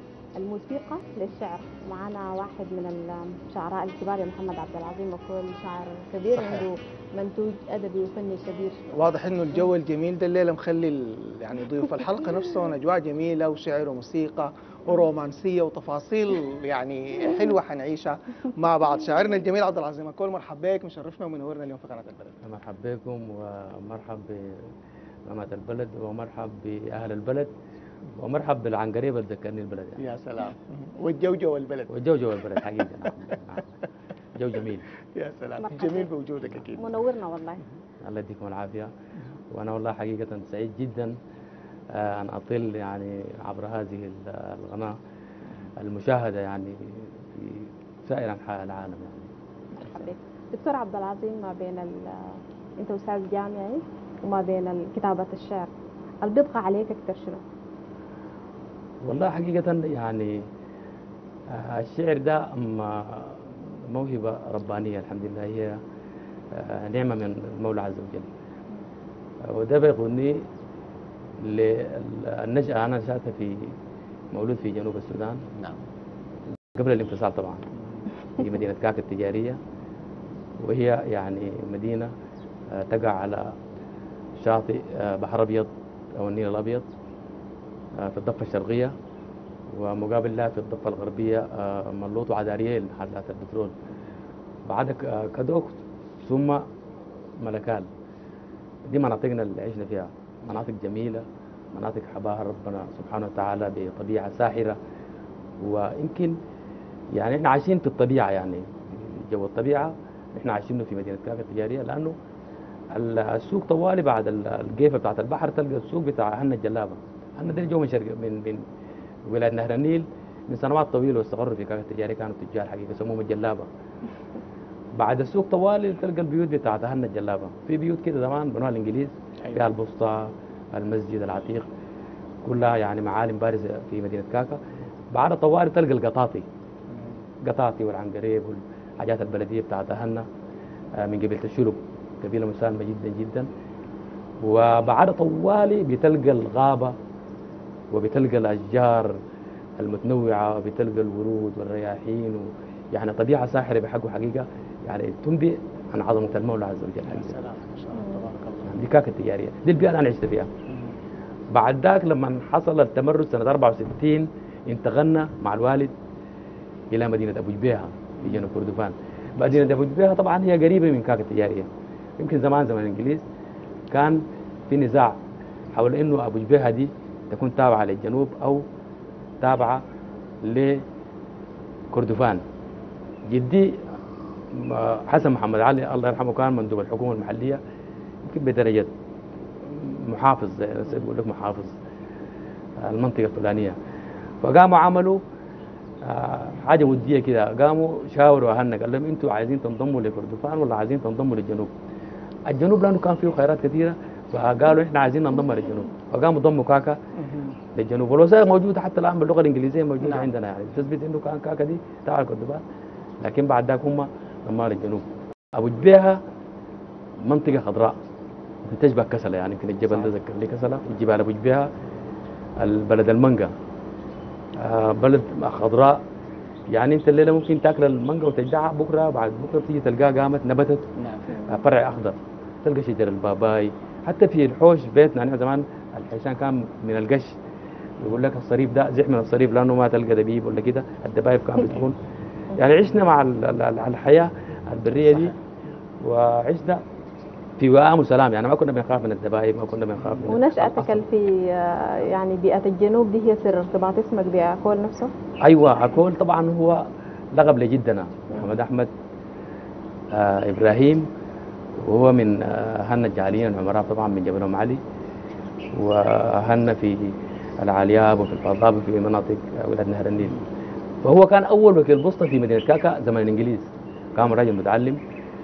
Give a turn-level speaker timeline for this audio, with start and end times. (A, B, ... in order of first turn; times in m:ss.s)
0:00.4-0:08.8 A
0:08.9-0:22.4 B
0:22.4-0:24.7 C
0:25.3-0:27.5 C
0:28.2-0:30.0 C
0:30.0-0:31.9 B
0:31.9-0:33.7 C
0:34.4-0:34.9 C
0:35.2-0:36.9 B
0:35.6-0:36.1 A
0:36.8-0:37.6 A
0:38.0-0:38.9 C
0:39.5-0:41.2 C
0:41.9-0:45.0 C
0:45.8-0:49.3 C
0:49.8-0:55.7 A
0:56.2-0:57.4 A
0:59.0-1:00.4 C
1:01.5-1:05.8 C
1:06.5-1:08.3 C
1:09.4-1:10.5 C
1:11.4-1:13.8 C
1:14.3-1:15.4 C
1:16.7-1:17.6 C
1:18.4-1:19.6 C
1:20.6-1:22.1 C
1:22.7-1:23.6 C
1:24.4-1:26.9 C
1:28.0-1:28.9 C
1:29.7-1:33.7 C
1:34.7-1:36.7 C
1:37.4-1:37.9 C
1:38.9-1:44.8 C
1:45.6-1:46.4 C
1:47.1-1:52.2 C
1:52.9-1:58.7 C
1:59.3-2:03.7 C
2:05.0-2:11.7 C
2:12.4-2:14.6 C
2:15.1-2:16.5 C
2:17.4-2:20.3 C
2:21.0-2:23.5 C
2:24.4-2:27.0 C
2:27.9-2:29.2 C
2:29.8-2:37.4 C
2:37.1-2:38.7 B
2:38.6-2:40.5 C
2:40.7-2:40.9 B
2:41.5-2:45.9 C
2:46.9-2:53.2 C
2:53.9-2:55.2 C
2:55.7-2:58.6 C
2:59.4-2:59.8 C
3:00.4-3:00.8 C
3:01.9-3:02.4 C
3:03.3-3:03.8 C
3:04.5-3:07.6 C
3:08.2-3:08.9 C
3:09.6-3:11.8 C
3:12.8-3:13.8 C
3:14.4-3:15.2 C
3:16.0-3:21.7 C
3:22.5-3:27.0 C
3:27.2-3:27.6 B
3:27.7-3:32.6 C
3:30.0-3:30.3 B
3:33.2-3:36.2 C
3:37.2-3:37.9 C
3:38.6-3:41.7 C
3:42.6-3:43.5 C
3:44.6-3:46.0 C
3:46.7-3:57.4 C
3:51.0-3:51.3 B
3:58.0-4:02.0 C
4:02.6-4:05.4 C
4:06.0-4:06.8 C
4:07.6-4:11.0 C
4:10.3-4:15.1 A
4:15.4-4:18.9 C
4:20.1-4:21.1 C
4:21.8-4:24.8 C
4:25.7-4:30.4 C
4:31.0-4:35.0 C